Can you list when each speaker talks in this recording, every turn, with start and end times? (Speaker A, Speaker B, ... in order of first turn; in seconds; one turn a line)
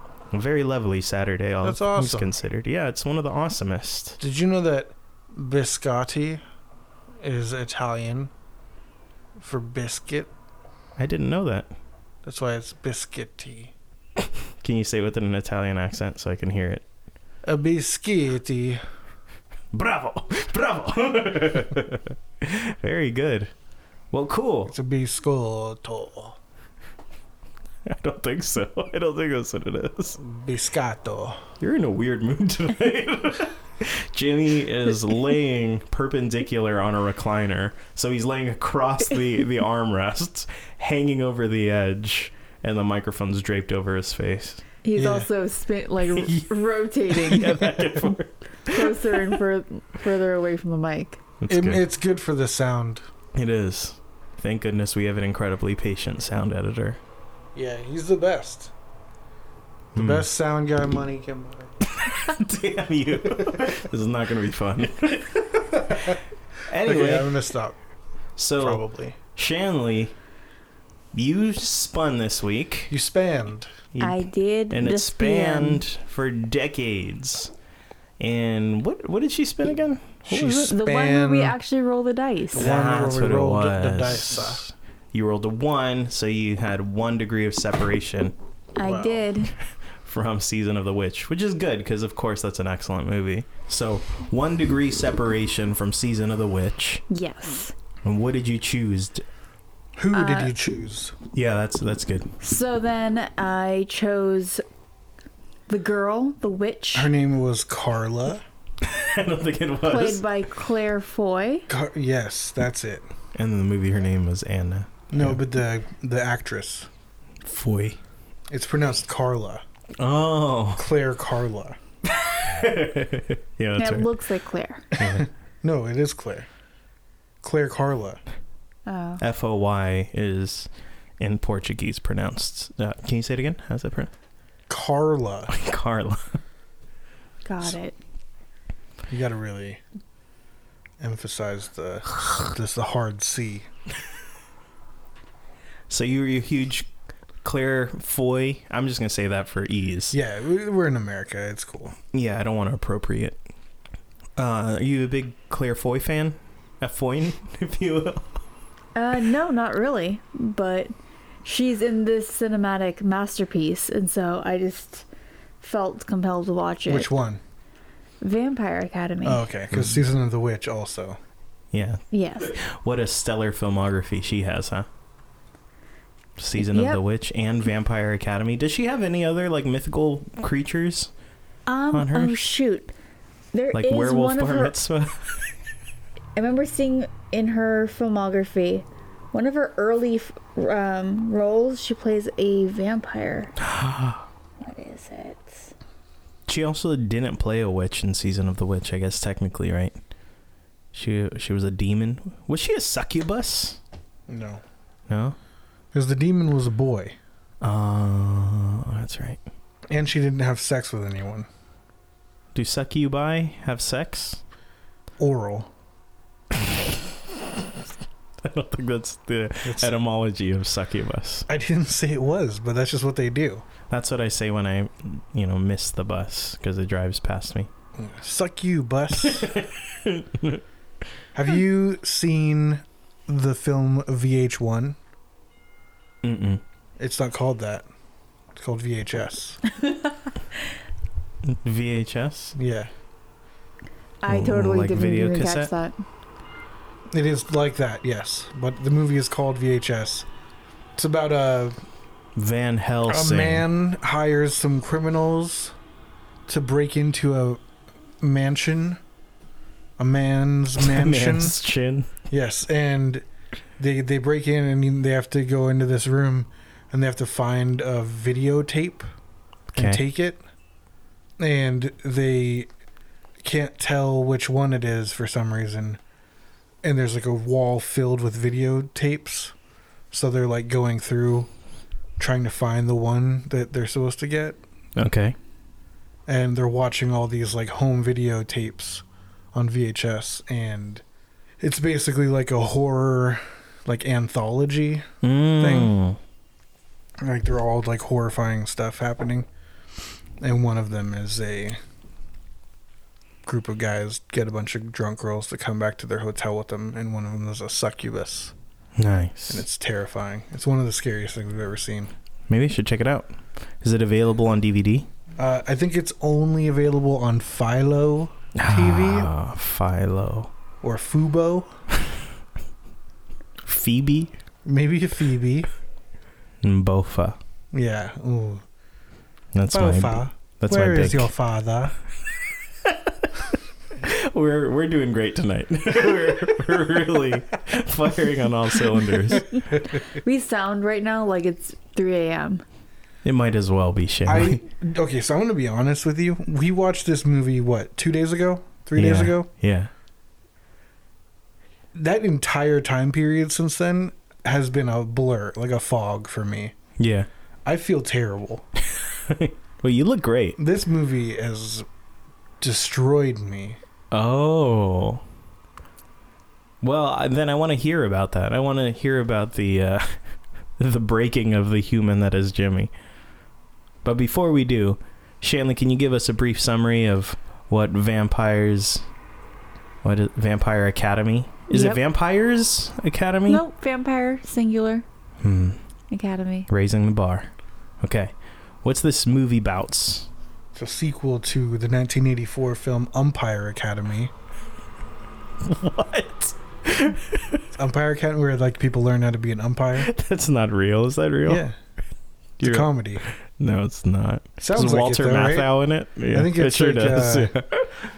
Speaker A: 0.3-4.2
Speaker B: 1.6-2.3
Speaker B: 4.2-6.4
Speaker B: 7.2-8.3
Speaker B: 9.4-10.3
Speaker A: 11.0-11.7
Speaker B: 12.2-13.7
Speaker A: 14.6-16.8
Speaker B: 17.5-18.8
Speaker A: 19.7-23.5
Speaker A: 24.1-24.7
Speaker B: 24.7-26.4
Speaker A: 27.9-30.2
Speaker B: 30.2-31.4
Speaker A: 31.6-44.6
Speaker C: 44.8-47.8
Speaker B: 45.0-45.3
Speaker A: 46.1-46.5
Speaker A: 47.1-49.3
Speaker C: 48.7-51.2
Speaker A: 51.4-51.8
Speaker B: 51.5-53.1
Speaker A: 53.4-57.0
Speaker B: 57.5-58.7
Speaker B: 59.9-61.7
Speaker A: 60.0-60.2
Speaker A: 62.0-67.3
Speaker B: 63.3-63.8
Speaker B: 66.8-67.8
Speaker A: 68.4-68.8
Speaker B: 68.6-69.2
Speaker A: 69.3-70.1
Speaker A: 71.1-72.9
Speaker B: 72.9-73.7
Speaker A: 73.9-77.5
Speaker C: 74.0-75.8
Speaker A: 78.2-80.3
Speaker B: 80.3-81.6
Speaker C: 80.3-82.7
Speaker B: 82.5-84.6
Speaker A: 82.6-88.3
Speaker C: 88.8-89.5
Speaker B: 88.8-89.2
Speaker A: 90.0-97.0
Speaker C: 97.1-97.7
Speaker A: 98.0-99.2
Speaker B: 100.0-101.2
Speaker C: 100.1-100.5
Speaker A: 101.3-102.3
Speaker C: 102.4-104.6
Speaker C: 105.7-107.1
Speaker B: 107.0-108.4
Speaker A: 108.8-110.2
Speaker C: 109.9-111.7
Speaker B: 111.7-113.1
Speaker A: 113.3-115.4
Speaker B: 115.1-116.9
Speaker A: 117.5-118.0
Speaker B: 118.5-119.6
Speaker A: 120.0-120.9
Speaker B: 120.8-121.8
Speaker A: 122.0-124.2
Speaker C: 123.8-124.9
Speaker A: 125.0-125.2
Speaker B: 125.0-126.5
Speaker B: 127.4-128.2
Speaker C: 128.9-129.2
Speaker A: 129.2-130.7
Speaker A: 131.2-134.1
Speaker B: 134.7-135.5
Speaker A: 135.5-136.4
Speaker C: 137.4-138.0
Speaker B: 139.1-139.8
Speaker B: 141.0-143.7
Speaker A: 145.9-146.9
Speaker A: 147.4-150.2
Speaker B: 150.1-152.0
Speaker A: 152.1-153.4
Speaker A: 154.4-158.3
Speaker C: 158.9-160.9
Speaker C: 161.4-165.1
Speaker C: 165.6-167.1
Speaker B: 166.9-167.4
Speaker C: 168.2-169.5
Speaker B: 169.2-171.2
Speaker A: 169.7-170.0
Speaker A: 171.7-174.9
Speaker C: 172.1-172.6
Speaker A: 176.4-181.1
Speaker C: 176.6-177.0
Speaker C: 181.7-182.9
Speaker A: 181.9-182.3
Speaker C: 183.5-184.8
Speaker A: 183.7-185.4
Speaker C: 186.4-193.6
Speaker A: 193.6-194.2
Speaker C: 194.6-195.7
Speaker A: 196.5-199.9
Speaker A: 200.9-203.8
Speaker B: 204.3-204.6
Speaker A: 205.1-205.4
Speaker B: 205.9-207.2
Speaker A: 207.6-209.4
Speaker B: 209.9-211.5
Speaker A: 212.5-214.4
Speaker B: 215.2-215.7
Speaker A: 218.4-221.5
Speaker B: 219.7-219.9
Speaker B: 221.5-223.7
Speaker A: 223.9-227.7
Speaker B: 228.0-229.5
Speaker A: 229.2-230.6
Speaker B: 231.3-235.0
Speaker A: 236.2-236.6
Speaker B: 237.0-237.9
Speaker B: 238.6-239.6
Speaker C: 239.7-240.1
Speaker A: 241.4-242.6
Speaker B: 242.6-242.9
Speaker C: 244.2-246.0
Speaker A: 244.3-245.7
Speaker B: 247.1-250.3
Speaker B: 251.0-251.8
Speaker A: 252.4-253.7
Speaker B: 253.1-255.7
Speaker B: 256.5-257.6
Speaker B: 258.2-259.0
Speaker B: 260.0-261.6
Speaker A: 260.8-262.1
Speaker B: 262.3-263.2
Speaker B: 263.8-269.1
Speaker B: 269.7-270.4
Speaker A: 269.8-270.0
Speaker B: 271.4-272.7
Speaker B: 273.4-276.0
Speaker B: 276.8-279.5
Speaker B: 280.1-281.5
Speaker B: 282.2-284.6
Speaker A: 285.0-285.4
Speaker B: 286.3-291.0
Speaker B: 291.6-295.1
Speaker A: 295.2-296.2
Speaker B: 295.6-295.9
Speaker B: 297.2-299.5
Speaker B: 300.4-301.8
Speaker B: 303.4-308.5
Speaker A: 309.0-309.6
Speaker B: 309.5-312.1
Speaker A: 312.5-315.1
Speaker B: 315.4-319.3
Speaker A: 318.6-320.5
Speaker B: 320.8-321.7
Speaker A: 323.6-324.3
Speaker B: 324.6-325.7
Speaker A: 326.6-327.4
Speaker B: 327.7-328.6
Speaker A: 329.5-331.3
Speaker B: 329.7-331.9
Speaker A: 332.9-339.5
Speaker C: 339.9-342.6
Speaker A: 343.2-344.6
Speaker B: 344.3-349.5
Speaker A: 349.0-349.9
Speaker B: 351.9-356.8
Speaker A: 357.0-357.3
Speaker B: 357.6-358.7
Speaker A: 358.9-360.6
Speaker B: 360.6-361.9
Speaker B: 362.6-363.8
Speaker A: 364.1-365.2
Speaker A: 366.8-370.2
Speaker A: 370.8-372.9
Speaker A: 374.0-379.1
Speaker A: 380.0-383.6
Speaker C: 381.7-382.0
Speaker C: 383.5-385.1
Speaker A: 385.4-385.8
Speaker C: 386.1-386.7
Speaker A: 386.7-387.5
Speaker A: 388.0-388.3
Speaker A: 388.8-390.3
Speaker B: 390.8-394.3
Speaker A: 395.6-397.7
Speaker B: 397.8-400.1
Speaker A: 400.0-401.6
Speaker B: 401.5-401.8
Speaker A: 402.6-407.9
Speaker B: 402.6-403.3
Speaker B: 404.6-405.7
Speaker B: 406.3-407.5